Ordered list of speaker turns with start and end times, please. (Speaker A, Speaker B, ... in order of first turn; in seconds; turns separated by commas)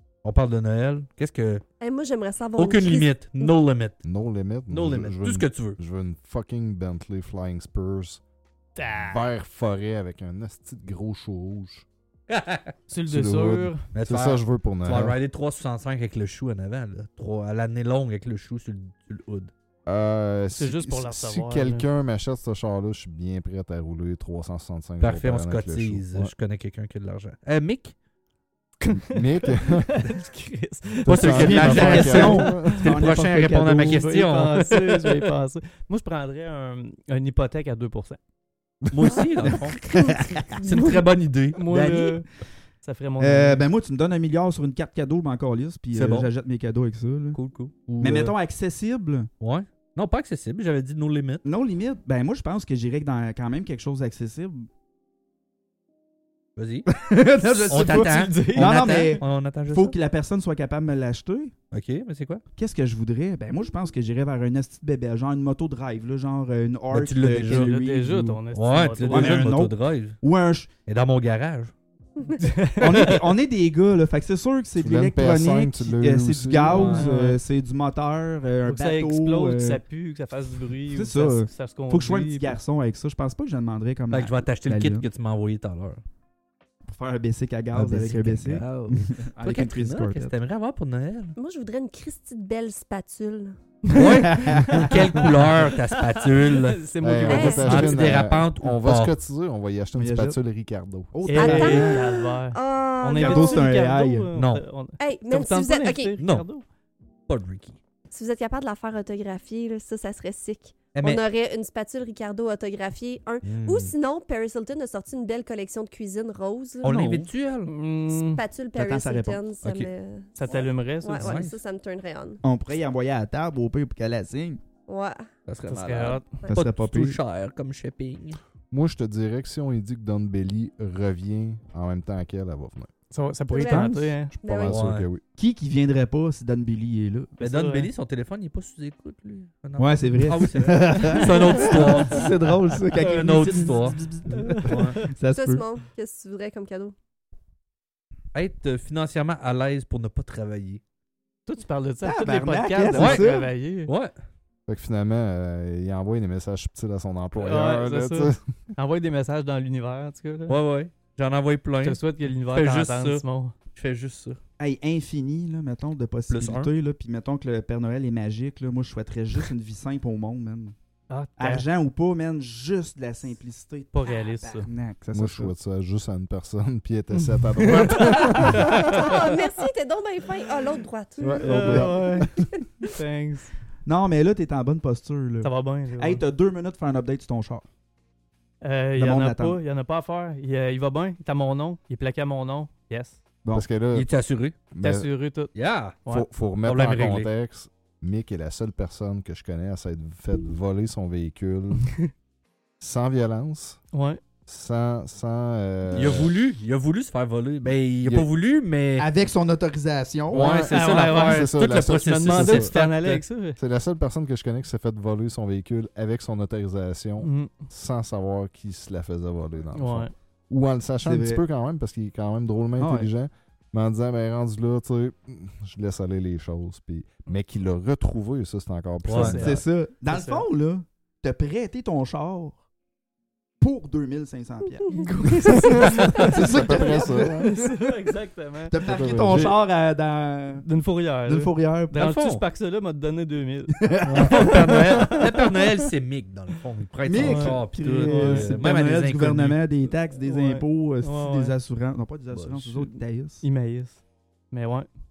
Speaker A: 0.2-1.6, Speaker B: 1.8-3.5, Speaker A: 2.6-4.0, Speaker C: 4.0-8.2, Speaker A: 4.7-5.8, Speaker D: 8.8-9.3, Speaker C: 9.0-11.8, Speaker A: 12.3-12.7, Speaker D: 12.9-13.8, Speaker C: 13.1-15.2, Speaker A: 13.9-19.5, Speaker C: 19.9-26.3, Speaker D: 20.5-21.9, Speaker A: 25.0-27.9, Speaker D: 28.8-32.8, Speaker C: 28.9-30.0, Speaker C: 31.1-32.8, Speaker A: 31.1-35.3, Speaker E: 31.3-34.2, Speaker D: 33.9-38.2, Speaker A: 38.9-39.8, Speaker E: 39.5-40.6, Speaker B: 39.8-40.2, Speaker A: 40.5-42.2, Speaker D: 41.5-42.3, Speaker D: 42.8-43.6, Speaker E: 43.2-47.4, Speaker A: 45.9-46.3, Speaker A: 47.3-48.3, Speaker E: 48.0-49.3, Speaker A: 49.4-51.4, Speaker E: 51.4-54.7, Speaker A: 56.5-56.9, Speaker E: 56.9-61.5, Speaker A: 57.6-59.9, Speaker D: 57.7-59.2, Speaker A: 61.7-62.4, Speaker E: 62.5-68.4, Speaker A: 66.9-67.8, Speaker D: 67.5-69.5, Speaker A: 68.5-70.2, Speaker E: 69.1-70.7, Speaker A: 70.9-71.7, Speaker D: 72.4-73.3, Speaker E: 72.8-79.8, Speaker C: 74.8-77.0, Speaker A: 76.7-77.1, Speaker D: 76.8-77.4, Speaker D: 78.6-82.6, Speaker E: 80.9-85.1, Speaker A: 84.1-86.0, Speaker E: 86.8-90.3, Speaker A: 87.7-91.3, Speaker B: 91.4-93.6, Speaker D: 93.8-98.0, Speaker A: 93.9-96.8, Speaker E: 94.1-95.0, Speaker C: 97.0-101.1, Speaker B: 97.3-98.0, Speaker A: 97.4-99.1, Speaker E: 99.9-100.4, Speaker E: 101.1-102.2, Speaker D: 101.2-106.6, Speaker B: 101.3-103.7, Speaker E: 103.1-104.3, Speaker A: 104.3-104.6, Speaker B: 105.0-106.2, Speaker A: 106.2-106.5, Speaker A: 107.3-107.8, Speaker B: 108.1-116.9, Speaker A: 110.9-111.2, Speaker A: 113.4-113.9, Speaker A: 116.8-117.7, Speaker E: 116.8-117.3, Speaker D: 117.7-118.4, Speaker B: 118.1-122.4, Speaker E: 118.7-119.4, Speaker A: 119.6-119.9, Speaker D: 120.4-121.4, Speaker A: 121.1-121.6, Speaker E: 122.4-124.6, Speaker B: 124.9-125.3, Speaker A: 125.5-128.4, Speaker D: 125.7-126.4, Speaker E: 126.5-127.2, Speaker C: 128.7-132.9, Speaker D: 133.1-134.3, Speaker B: 133.5-134.8, Speaker E: 133.6-134.1, Speaker C: 134.3-135.2, Speaker A: 134.7-135.1, Speaker E: 135.4-137.4, Speaker D: 137.4-137.9, Speaker A: 137.4-144.0, Speaker E: 139.8-145.6, Speaker D: 141.6-142.0, Speaker D: 143.3-145.1, Speaker A: 144.6-145.0, Speaker B: 145.3-146.9, Speaker A: 148.3-150.8, Speaker D: 151.5-153.9, Speaker E: 152.0-153.5, Speaker A: 152.9-153.3, Speaker A: 153.8-154.1, Speaker C: 154.7-158.4, Speaker D: 157.3-160.6, Speaker A: 160.5-163.2, Speaker D: 161.8-163.5, Speaker A: 163.7-164.4, Speaker E: 164.6-170.7, Speaker A: 166.3-166.7, Speaker D: 171.1-171.7, Speaker E: 171.4-175.5, Speaker D: 173.9-174.7, Speaker C: 175.1-178.9, Speaker D: 177.1-179.2, Speaker B: 178.2-182.0, Speaker C: 181.2-182.5, Speaker D: 181.4-182.3, Speaker B: 182.6-182.9, Speaker D: 182.8-183.5, Speaker E: 183.8-187.6, Speaker D: 185.4-186.2, Speaker D: 188.6-193.2, Speaker E: 188.9-189.6, Speaker C: 193.5-194.1, Speaker A: 193.9-194.6, Speaker C: 194.7-195.1, Speaker D: 194.8-195.5, Speaker A: 195.5-196.0, Speaker C: 196.1-201.9, Speaker A: 196.6-197.3, Speaker C: 202.8-203.8, Speaker D: 203.9-204.2, Speaker C: 204.5-206.3, Speaker A: 205.9-209.1, Speaker E: 209.0-210.6, Speaker C: 210.3-212.8, Speaker A: 210.3-213.2, Speaker D: 210.7-213.6, Speaker C: 213.6-229.6, Speaker D: 217.2-217.6, Speaker D: 219.7-220.1, Speaker E: 221.0-221.4, Speaker E: 222.8-223.1, Speaker A: 229.0-229.4, Speaker D: 229.1-230.4, Speaker E: 229.2-232.6, Speaker E: 233.6-237.8, Speaker D: 234.9-239.2, Speaker C: 235.6-237.5, Speaker A: 235.8-236.2, Speaker E: 238.6-240.7, Speaker C: 238.8-239.6, Speaker D: 240.6-245.4, Speaker E: 241.2-241.9, Speaker A: 241.9-242.4, Speaker E: 243.7-245.4, Speaker A: 244.0-249.6, Speaker E: 247.1-253.4, Speaker D: 247.2-248.6, Speaker D: 250.2-251.6, Speaker A: 252.3-252.8, Speaker D: 253.4-254.9